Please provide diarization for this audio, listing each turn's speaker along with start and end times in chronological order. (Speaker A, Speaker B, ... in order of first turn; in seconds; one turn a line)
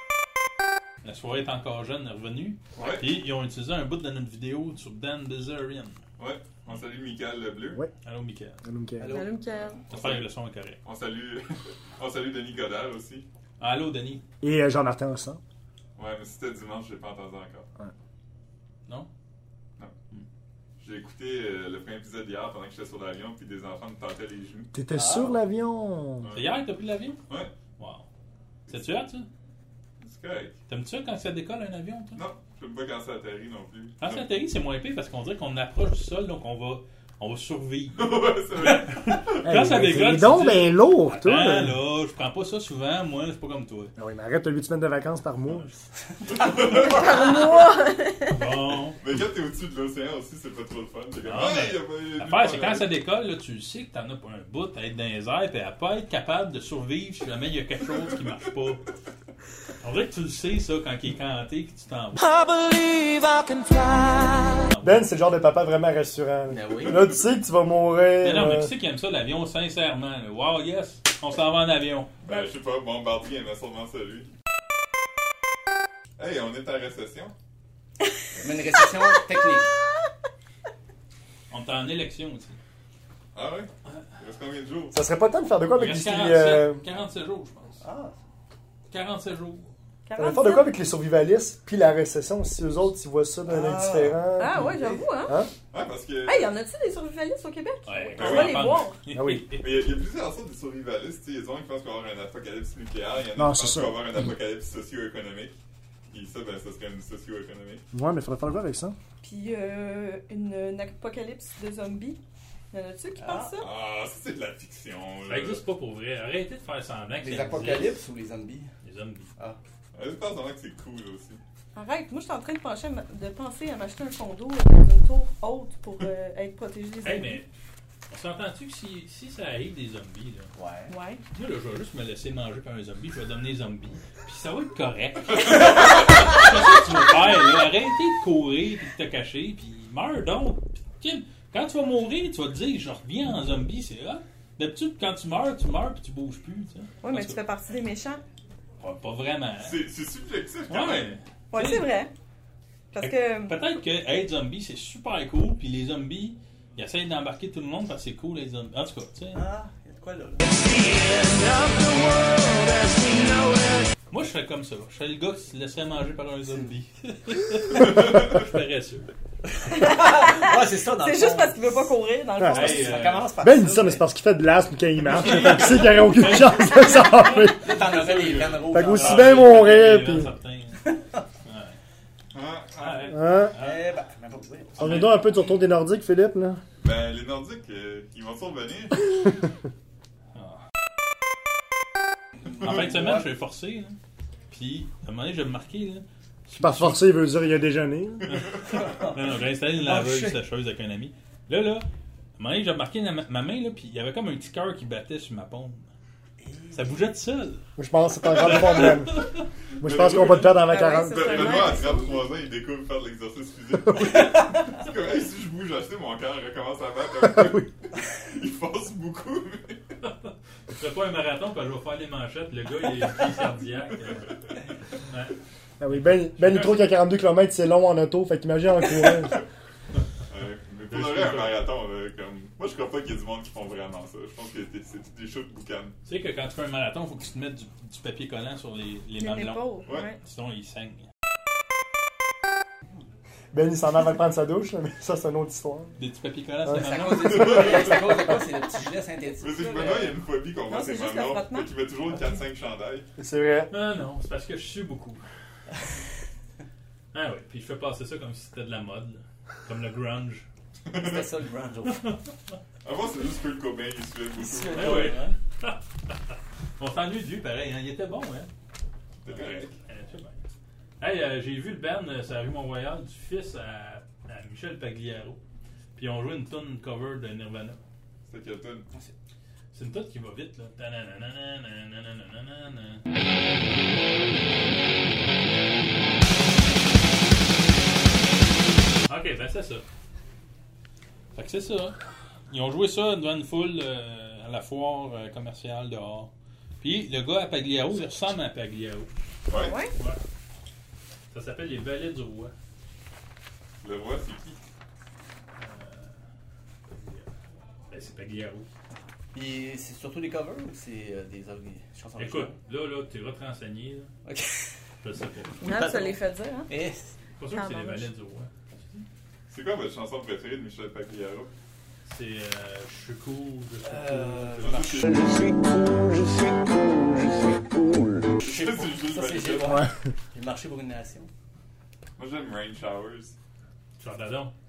Speaker A: 1.0-6.0
Speaker B: 2.8-3.2
Speaker B: 6.2-7.8
Speaker A: 8.0-8.6
Speaker C: 8.6-9.2
Speaker D: 9.0-9.7
Speaker E: 9.1-9.8
Speaker B: 9.9-10.2
Speaker A: 9.9-10.8
Speaker B: 10.8-13.3
Speaker A: 13.6-14.2
Speaker C: 14.4-15.4
Speaker B: 16.0-17.7
Speaker B: 20.8-24.7
Speaker C: 24.7-26.3
Speaker D: 24.9-25.4
Speaker A: 26.2-27.2
Speaker A: 27.8-28.1
Speaker A: 28.7-29.3
Speaker B: 30.0-30.6
Speaker A: 30.7-32.2
Speaker B: 32.1-34.3
Speaker A: 34.0-43.9
Speaker B: 38.0-39.5
Speaker C: 39.4-41.8
Speaker C: 44.0-45.7
Speaker B: 46.3-47.2
Speaker D: 46.3-46.9
Speaker E: 46.8-48.4
Speaker A: 48.3-49.0
Speaker B: 49.0-52.9
Speaker A: 51.2-58.8
Speaker A: 59.8-62.2
Speaker F: 62.2-64.7
Speaker A: 64.7-65.1
Speaker C: 64.8-68.7
Speaker D: 66.5-67.1
Speaker A: 68.2-72.2
Speaker B: 72.2-74.3
Speaker B: 76.2-77.3
Speaker D: 78.4-79.7
Speaker A: 81.5-82.6
Speaker B: 83.3-85.0
Speaker C: 84.9-86.8
Speaker A: 85.8-87.8
Speaker D: 87.8-88.1
Speaker A: 88.9-89.7
Speaker E: 90.1-90.7
Speaker C: 90.2-94.7
Speaker D: 93.5-95.1
Speaker E: 94.4-95.4
Speaker B: 95.7-96.5
Speaker E: 96.2-99.0
Speaker A: 97.9-99.8
Speaker B: 98.2-98.9
Speaker C: 99.1-99.5
Speaker B: 99.6-105.6
Speaker C: 103.3-104.2
Speaker B: 106.1-107.8
Speaker C: 107.9-109.0
Speaker E: 109.2-112.2
Speaker E: 112.7-113.7
Speaker D: 113.2-113.5
Speaker B: 113.6-115.6
Speaker A: 115.2-117.9
Speaker D: 117.2-118.7
Speaker A: 118.8-119.3
Speaker B: 119.9-121.4
Speaker E: 121.8-127.4
Speaker A: 127.0-127.5
Speaker A: 128.1-130.5
Speaker D: 130.6-130.9
Speaker E: 130.9-131.2
Speaker A: 131.3-147.4
Speaker E: 147.0-148.2
Speaker A: 148.8-149.8
Speaker B: 149.6-151.2
Speaker A: 150.7-151.9
Speaker E: 151.5-152.1
Speaker E: 152.9-153.6
Speaker A: 153.0-159.4
Speaker D: 159.3-160.4
Speaker F: 160.5-163.9
Speaker A: 164.1-169.1
Speaker D: 169.7-172.0
Speaker E: 169.7-173.1
Speaker A: 172.5-173.3
Speaker D: 172.6-174.1
Speaker C: 173.4-177.9
Speaker A: 175.0-180.9
Speaker D: 177.6-179.7
Speaker C: 178.7-180.3
Speaker D: 180.8-181.2
Speaker A: 181.4-181.8
Speaker B: 182.3-183.2
Speaker A: 182.8-183.9
Speaker C: 183.1-183.6
Speaker D: 183.6-185.1
Speaker C: 184.8-186.6
Speaker A: 184.8-185.4
Speaker B: 186.8-189.1
Speaker A: 190.3-190.6
Speaker D: 192.4-193.3
Speaker A: 192.6-194.0
Speaker A: 194.5-197.1
Speaker C: 196.6-198.4
Speaker A: 198.3-201.9
Speaker D: 198.8-199.1
Speaker D: 199.7-200.4
Speaker A: 202.4-205.9
Speaker D: 206.4-206.9
Speaker A: 206.7-207.6
Speaker C: 207.8-211.8
Speaker A: 208.4-209.5
Speaker B: 209.8-219.8
Speaker E: 210.6-212.3
Speaker C: 213.9-214.2
Speaker C: 217.2-217.7
Speaker A: 220.0-224.3
Speaker B: 224.1-224.4
Speaker A: 225.0-225.4
Speaker C: 225.8-229.4
Speaker A: 225.9-227.0
Speaker B: 230.3-236.0
Speaker A: 230.9-231.6
Speaker A: 236.0-241.1
Speaker E: 239.2-240.2
Speaker C: 243.5-245.9
Speaker A: 246.0-248.0
Speaker D: 246.7-250.2
Speaker B: 247.3-248.2
Speaker B: 249.4-253.1
Speaker E: 249.5-250.0
Speaker E: 250.6-251.7
Speaker C: 253.2-253.7
Speaker A: 253.7-255.2
Speaker A: 257.1-260.5
Speaker B: 260.9-261.3
Speaker D: 260.9-262.1
Speaker A: 261.9-262.2
Speaker B: 262.8-265.2
Speaker D: 264.4-265.4
Speaker A: 264.7-268.5
Speaker B: 269.2-269.7
Speaker A: 269.3-270.4
Speaker A: 271.0-275.4
Speaker A: 276.0-277.8
Speaker B: 278.3-278.9
Speaker A: 279.7-283.0
Speaker A: 289.1-289.9
Speaker A: 291.4-292.0
Speaker A: 292.5-296.3
Speaker A: 296.8-299.1
Speaker B: 299.5-299.8
Speaker E: 299.5-299.9
Speaker A: 301.3-302.5
Speaker B: 303.8-304.6
Speaker A: 305.6-306.2
Speaker A: 306.9-307.3
Speaker A: 307.9-308.7
Speaker D: 309.3-312.6
Speaker A: 312.2-314.1
Speaker D: 314.2-314.7
Speaker A: 315.0-315.7
Speaker D: 315.6-317.2
Speaker E: 315.6-316.7
Speaker A: 317.4-319.1
Speaker E: 317.5-318.1
Speaker B: 319.5-321.5
Speaker A: 322.1-324.9
Speaker D: 323.8-325.1
Speaker B: 324.6-325.3
Speaker F: 325.1-328.3
Speaker B: 328.4-329.8
Speaker D: 328.4-331.3
Speaker B: 332.2-333.4
Speaker A: 334.0-334.5